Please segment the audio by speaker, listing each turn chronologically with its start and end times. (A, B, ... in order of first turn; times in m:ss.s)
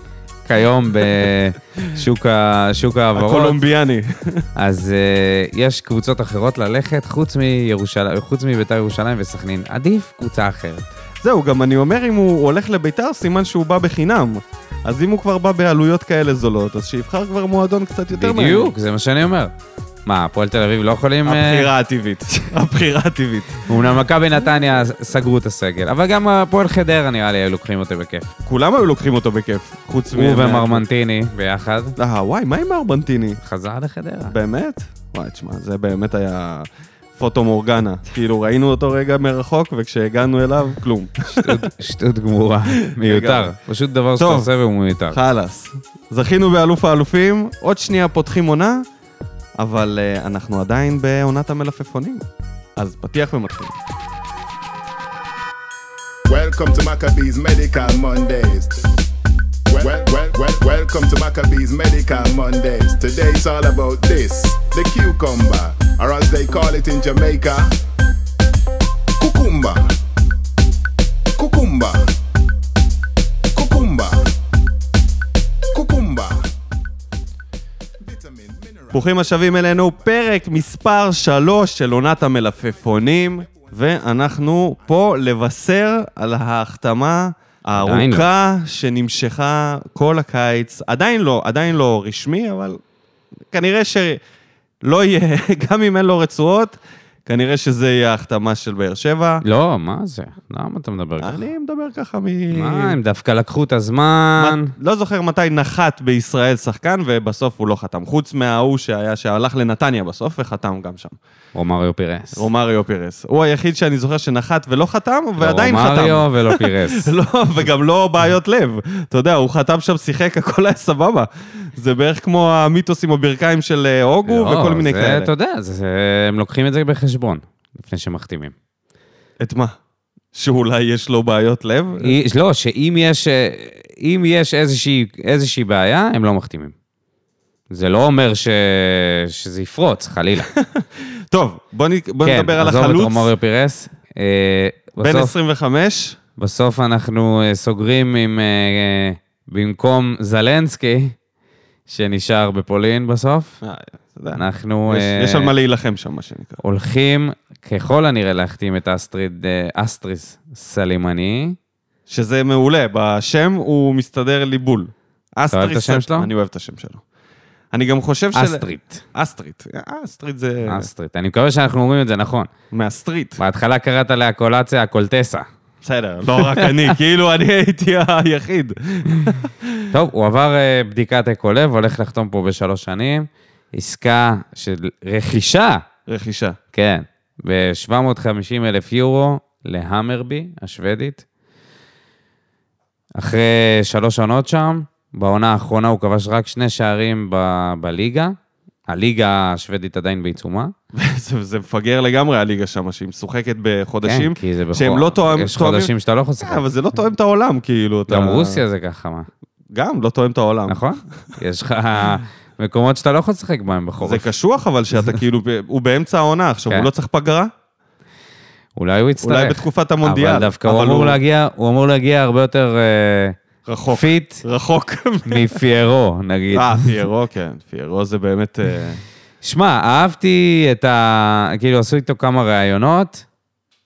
0:00.5-0:03.6 A
0:03.2-0:04.4 B
0:04.6-0:10.9 A
0:11.2-0:18.8 B
0:18.1-0:19.5 A
0:20.1-0:21.7 A
0:21.2-0:23.6 B
0:23.7-0:28.3 A
0:28.4-0:30.8 B
0:30.1-0:32.0 A
0:32.0-0:33.4 B
0:33.4-0:34.3 A
0:34.3-0:41.7 B
0:41.3-0:45.2 A
0:42.9-0:43.5 B
0:44.2-0:44.5 B
0:45.1-0:48.8 B
0:49.6-0:53.8 B
0:56.3-0:58.8 C
0:59.7-1:07.8 C
1:09.2-1:09.9 C
1:11.4-1:12.1 C
1:13.5-1:14.2 C
1:15.7-1:16.5 C
1:18.0-1:19.0 C
1:18.9-1:32.8 B
1:27.8-1:28.3 A
1:33.5-1:34.2 B
1:34.8-1:39.4 B
1:39.4-1:41.4 A
1:41.2-1:43.0 B
1:42.5-1:44.8 A
1:44.4-1:51.2 B
1:51.6-1:52.5 A
1:52.4-2:05.3 B
1:55.4-1:57.1 A
2:04.3-2:08.5 A
2:09.4-2:09.8 B
2:10.3-2:12.2 B
2:12.0-2:16.7 A
2:17.7-2:20.5 A
2:20.6-2:23.3 B
2:22.2-2:25.3 A
2:25.0-2:26.2 B
2:26.4-2:31.2 A
2:31.9-2:33.6 A
2:33.6-2:36.6 B
2:34.3-2:35.5 A
2:36.6-2:41.6 A
2:42.1-2:47.0 B
2:45.5-2:46.3 A
2:47.7-2:50.9 B
2:48.3-2:49.0 A
2:50.6-2:52.5 A
2:52.7-2:53.4 B
2:53.4-2:55.5 A
2:55.8-2:59.8 B
2:56.3-2:56.9 A
2:59.9-3:05.8 A
3:06.1-3:06.6 B
3:06.7-3:11.2 A
3:13.2-3:18.4 A
3:18.9-3:20.7 A
3:20.9-3:28.6 B
3:24.0-3:26.6 A
3:28.1-3:29.3 A
3:29.7-3:30.8 B
3:30.7-3:34.3 A
3:34.0-3:37.5 B
3:38.8-3:43.4 A
3:39.2-3:41.2 B
3:43.7-3:45.6 B
3:43.9-3:44.4 A
3:45.3-3:46.8 A
3:46.5-3:49.0 B
3:49.4-3:53.2 A